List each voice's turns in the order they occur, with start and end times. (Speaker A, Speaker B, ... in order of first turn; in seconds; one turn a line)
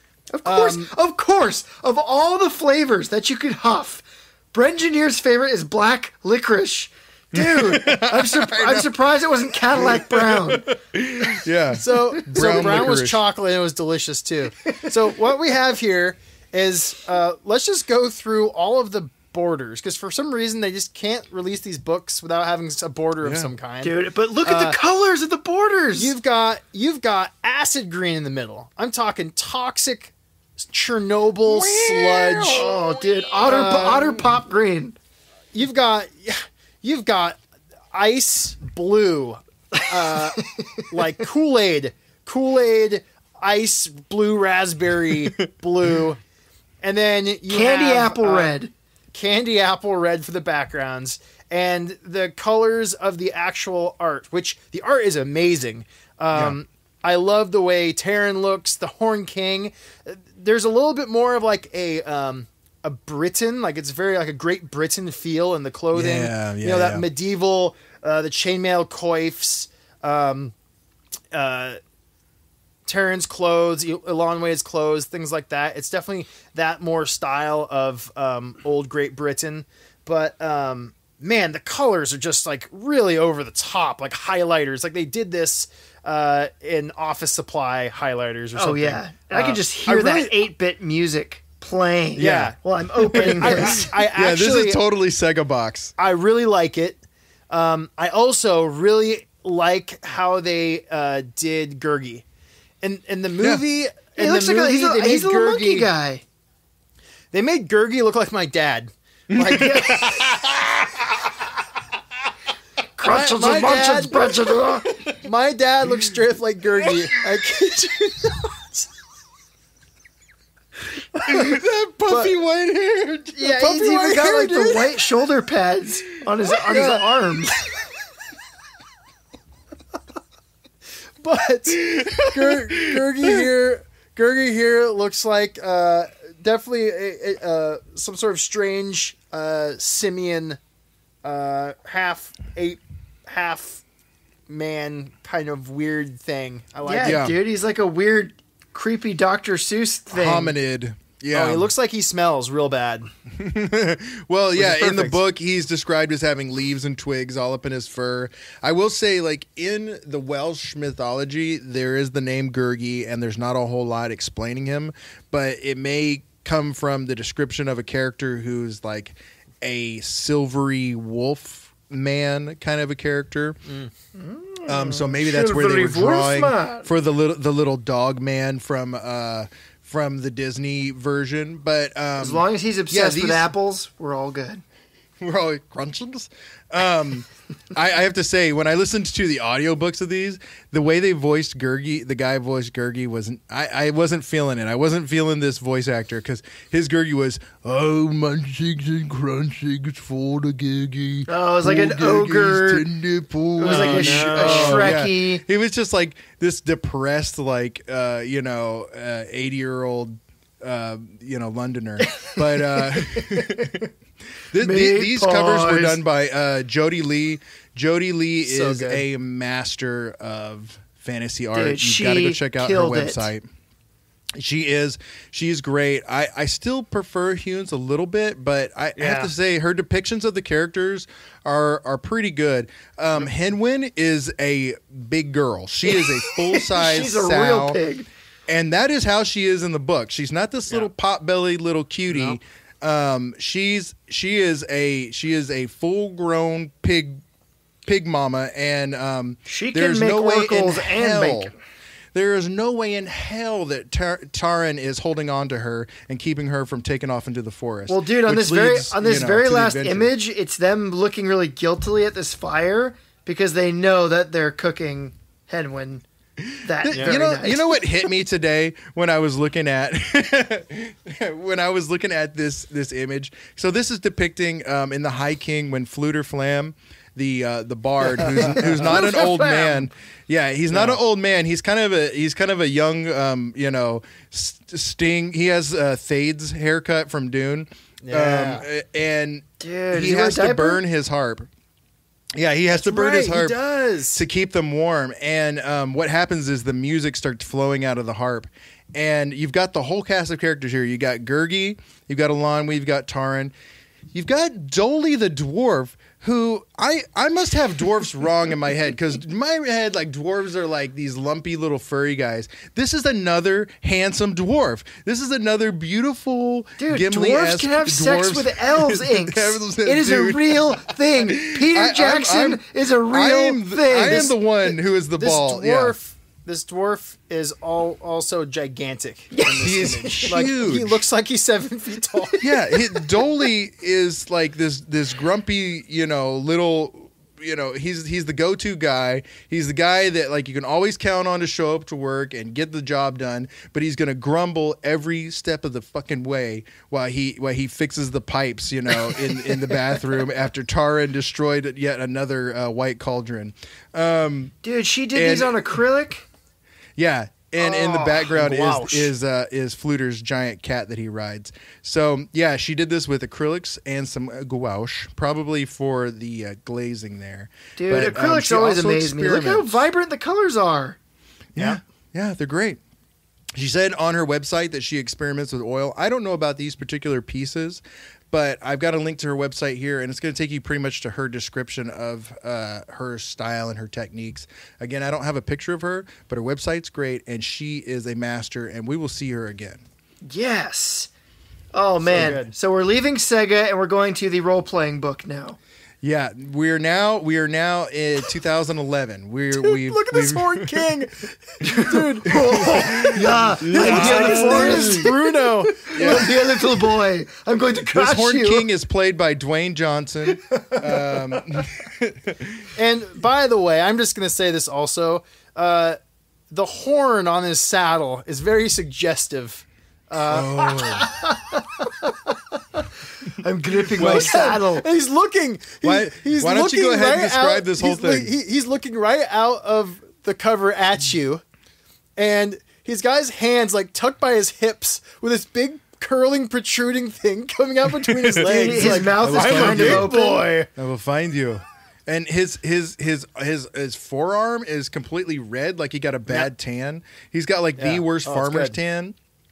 Speaker A: 0.3-10.7
Speaker B: 0.4-0.9
Speaker C: 7.3-8.9
Speaker C: 9.7-13.2
Speaker B: 11.7-24.8
Speaker A: 11.9-12.6
Speaker C: 23.2-23.5
Speaker A: 23.8-26.1
Speaker B: 25.9-32.7
Speaker C: 31.4-32.8
Speaker A: 32.5-35.0
Speaker B: 33.4-34.2
Speaker B: 35.5-37.4
Speaker B: 37.9-46.2
Speaker A: 39.8-40.8
Speaker B: 46.8-48.6
Speaker A: 47.5-48.7
Speaker B: 49.1-70.5
Speaker C: 56.3-56.6
Speaker C: 65.9-67.1
Speaker B: 71.3-71.8
Speaker B: 72.8-90.4
Speaker A: 88.5-93.9
Speaker C: 92.2-92.5
Speaker B: 92.2-94.8
Speaker C: 93.1-95.9
Speaker B: 96.0-102.2
Speaker B: 102.8-105.9
Speaker A: 104.2-106.2
Speaker B: 107.3-110.4
Speaker C: 109.3-111.3
Speaker A: 109.4-110.0
Speaker A: 113.0-114.9
Speaker B: 113.0-118.9
Speaker B: 121.1-122.3
Speaker C: 121.2-123.5
Speaker A: 123.3-127.6
Speaker B: 123.5-125.0
Speaker B: 126.7-127.1
Speaker C: 126.7-127.0
Speaker B: 131.2-140.6
Speaker C: 131.7-133.5
Speaker B: 141.2-143.8
Speaker B: 144.5-147.2
Speaker A: 146.8-150.5
Speaker C: 147.0-147.4
Speaker C: 150.1-151.7
Speaker B: 151.3-153.1
Speaker C: 153.3-173.6
Speaker B: 154.6-155.2
Speaker A: 174.1-176.9
Speaker C: 174.7-183.5
Speaker A: 182.2-184.6
Speaker C: 185.2-213.9
Speaker A: 201.3-202.9
Speaker A: 203.6-205.4
Speaker B: 203.6-204.9
Speaker A: 213.0-213.8
Speaker C: 214.5-223.4
Speaker A: 214.6-216.0
Speaker B: 218.4-219.0
Speaker A: 221.5-223.2
Speaker C: 224.3-237.8
Speaker B: 228.9-229.3
Speaker A: 235.9-238.1
Speaker C: 238.5-247.2
Speaker B: 242.1-242.4
Speaker C: 247.8-251.5
Speaker A: 249.4-251.5
Speaker C: 252.1-260.1
Speaker A: 257.9-266.0
Speaker A: 266.6-267.8
Speaker C: 266.8-291.5
Speaker B: 266.9-267.2
Speaker B: 278.2-278.8
Speaker A: 278.4-279.9
Speaker B: 280.7-281.0
Speaker B: 288.0-288.6
Speaker A: 289.6-290.8
Speaker C: 292.4-293.6
Speaker B: 292.7-294.2
Speaker C: 294.1-303.5
Speaker C: 304.1-326.0
Speaker A: 316.8-324.4
Speaker B: 325.2-332.6
Speaker A: 329.3-330.3
Speaker C: 329.6-331.0
Speaker C: 332.4-354.5
Speaker A: 354.6-356.2
Speaker C: 355.1-355.7
Speaker C: 357.0-369.8
Speaker A: 357.6-358.3
Speaker B: 358.3-359.1
Speaker A: 367.8-371.0
Speaker C: 371.5-372.8
Speaker C: 373.5-389.8
Speaker A: 390.3-391.1
Speaker A: 391.7-395.6
Speaker B: 392.1-392.5
Speaker C: 396.0-400.9
Speaker B: 399.5-406.6
Speaker A: 401.6-405.1
Speaker C: 402.3-405.2
Speaker A: 405.8-408.7
Speaker C: 405.9-406.6
Speaker C: 407.9-412.7
Speaker A: 410.5-411.2
Speaker B: 412.7-416.0
Speaker B: 416.5-421.2
Speaker C: 420.2-421.1
Speaker A: 421.2-422.3
Speaker A: 423.4-424.9
Speaker C: 423.9-424.5
Speaker B: 423.9-431.4
Speaker C: 425.8-428.3
Speaker B: 432.2-440.7
Speaker C: 438.1-440.1
Speaker A: 438.4-440.5
Speaker C: 440.7-449.1
Speaker B: 447.8-448.8